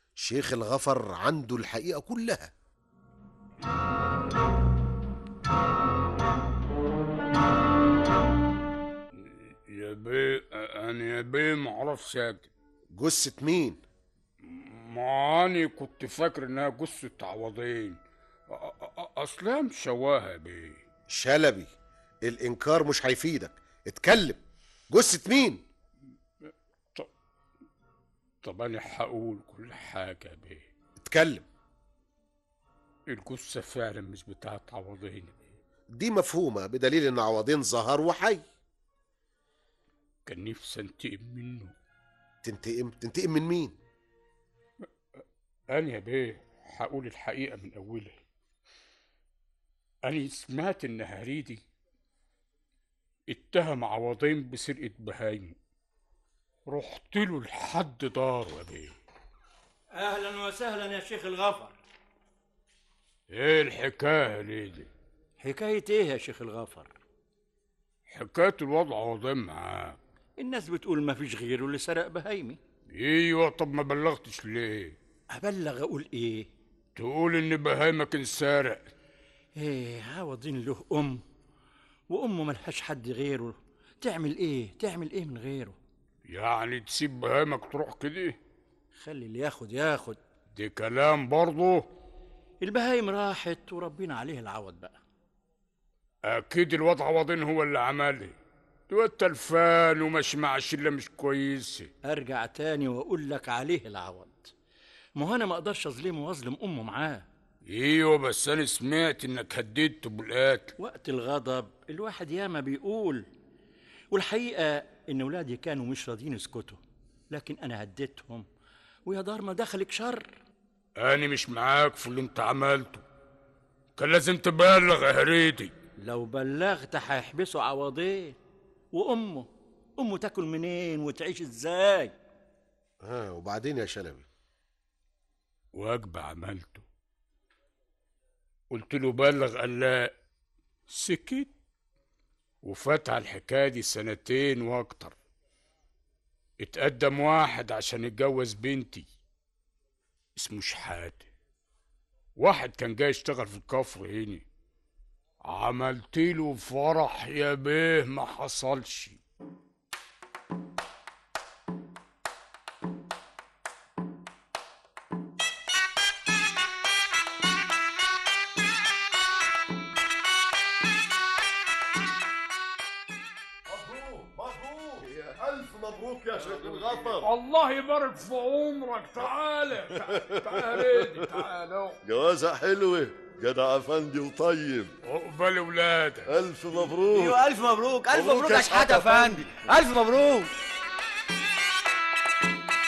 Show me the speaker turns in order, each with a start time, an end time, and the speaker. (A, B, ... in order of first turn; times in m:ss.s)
0:00.2-0:02.5 A
0:09.2-0:12.5 B
0:12.9-0:13.8 A
0:14.4-0:20.8 B
0:21.1-0:25.6 A
0:28.4-0:30.7 B
0:31.0-0:31.4 A
0:33.1-0:35.6 B
0:35.9-0:38.4 A
0:40.3-0:41.7 B
0:42.4-0:43.8 A
0:45.7-0:48.2 B
0:50.0-0:51.6 B
0:53.3-0:55.6 B
0:56.7-0:58.9 B
0:59.9-1:01.8 C
1:03.3-1:04.9 B
1:05.4-1:06.9 C
1:08.1-1:10.0 B
1:10.4-1:12.6 C
1:12.9-1:15.0 B
1:15.3-1:16.5 C
1:17.0-1:18.9 B
1:19.6-1:21.2 C
1:22.1-1:25.8 C
1:26.3-1:28.4 B
1:29.0-1:30.2 C
1:30.6-1:31.9 B
1:32.6-1:35.0 C
1:36.3-1:38.4 B
1:38.9-1:41.9 B
1:42.0-1:44.5 C
1:45.2-1:47.3 C
1:47.7-1:50.7 B
1:50.8-1:53.3 C
1:54.1-1:58.5 C
1:59.1-2:00.3 C
2:01.0-2:03.0 B
2:04.0-2:05.7 B
2:06.0-2:08.4 C
2:08.9-2:12.2 C
2:13.0-2:14.3 A
2:15.7-2:16.8 B
2:18.7-2:20.1 B
2:20.9-2:21.5 B
2:22.6-2:25.2 B
2:26.6-2:29.1 B
2:30.4-2:31.3 B
2:32.4-2:34.4 B
2:35.4-2:39.2 B
2:53.7-2:57.3 D
2:57.2-3:02.0 B
2:59.9-3:01.4 D
3:02.1-3:04.9 D
3:05.0-3:06.3 B
3:06.3-3:07.4 D
3:07.0-3:10.5 E
3:08.2-3:09.5 D